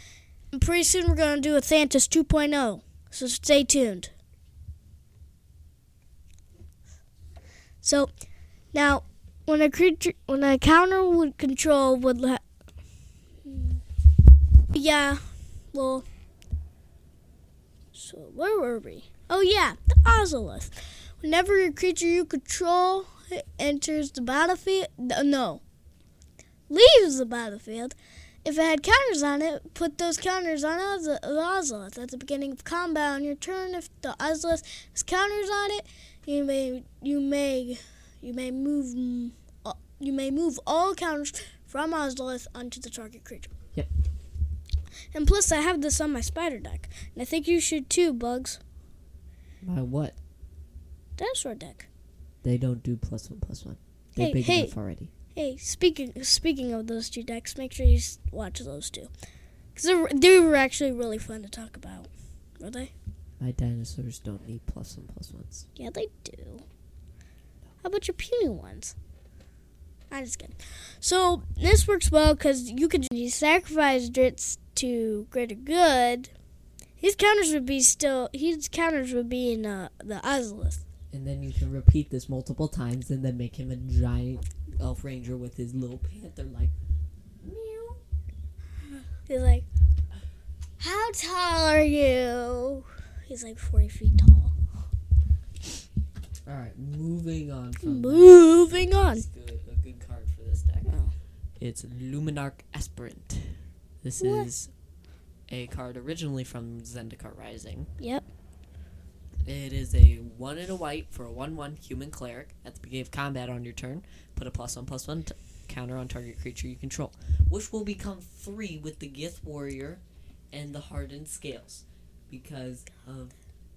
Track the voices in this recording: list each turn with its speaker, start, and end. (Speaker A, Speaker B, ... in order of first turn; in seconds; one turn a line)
Speaker A: 0.5-4.1
Speaker A: 7.8-8.1
Speaker A: 8.7-12.4
Speaker A: 13.4-13.8
Speaker A: 14.7-15.2
Speaker A: 15.7-16.0
Speaker A: 17.9-25.6
Speaker A: 26.7-43.5
Speaker A: 45.1-48.6
Speaker B: 49.6-50.2
Speaker A: 51.2-51.9
Speaker B: 52.4-55.1
Speaker A: 54.2-54.7
Speaker A: 55.3-59.1
Speaker A: 59.7-62.9
Speaker B: 63.4-65.7
Speaker A: 65.8-66.6
Speaker A: 67.8-68.9
Speaker A: 70.1-76.3
Speaker A: 77.0-80.8
Speaker B: 81.1-86.7
Speaker B: 87.4-88.0
Speaker A: 89.3-89.7
Speaker A: 90.8-94.5
Speaker B: 96.5-100.9
Speaker A: 97.8-99.2
Speaker A: 100.8-101.1
Speaker B: 101.6-104.7
Speaker A: 104.2-104.5
Speaker B: 105.5-107.9
Speaker A: 108.0-108.3
Speaker B: 109.4-123.3